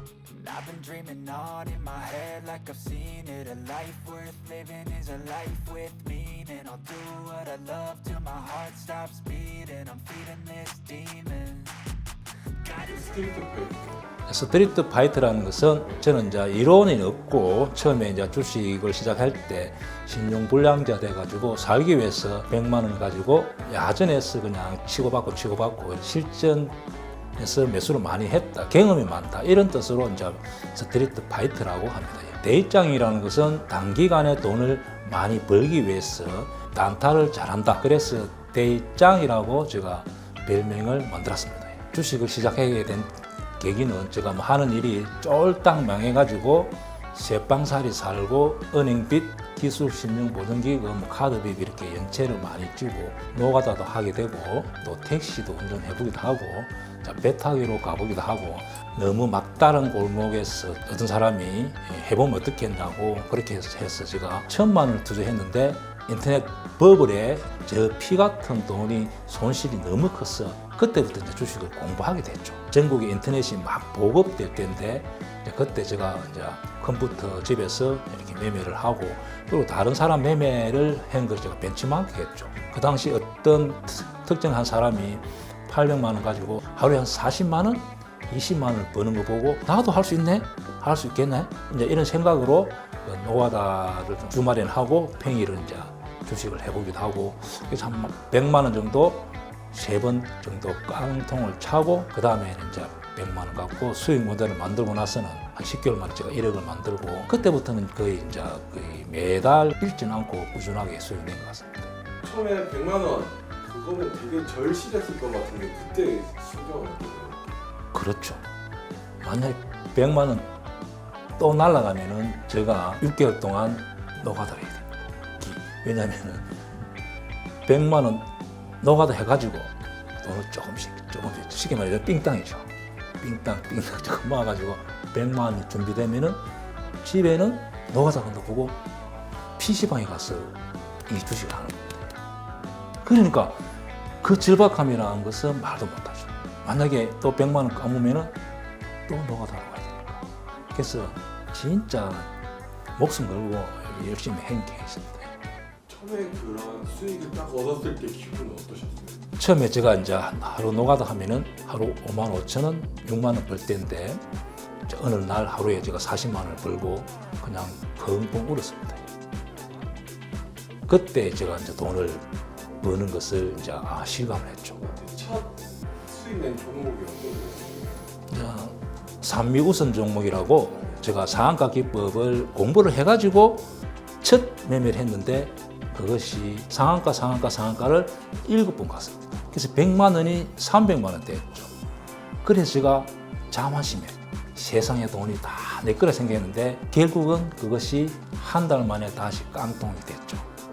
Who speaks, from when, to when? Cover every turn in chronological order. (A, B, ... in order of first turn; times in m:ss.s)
0:00.3-0:11.8 A
0:12.7-0:14.1 B
0:14.3-0:26.8 C
0:27.4-1:51.9 C
1:52.2-1:57.5 B
1:57.9-1:58.5 C
1:59.2-2:00.5 C
2:01.4-2:06.5 C
2:07.6-2:08.3 C
2:08.8-2:12.7 C
2:13.2-2:16.4 C
2:17.0-2:18.8 C
2:19.6-2:22.2 C
2:23.0-2:23.7 C
2:24.2-2:28.4 C
2:29.1-2:32.3 C
2:33.0-2:35.3 C
2:35.9-2:39.2 B
2:39.4-2:44.2 C
2:44.9-2:49.1 C
2:50.9-2:52.2 C
2:52.8-2:54.8 C
2:54.8-2:58.1 B
2:58.3-3:11.7 C
3:12.4-3:20.5 C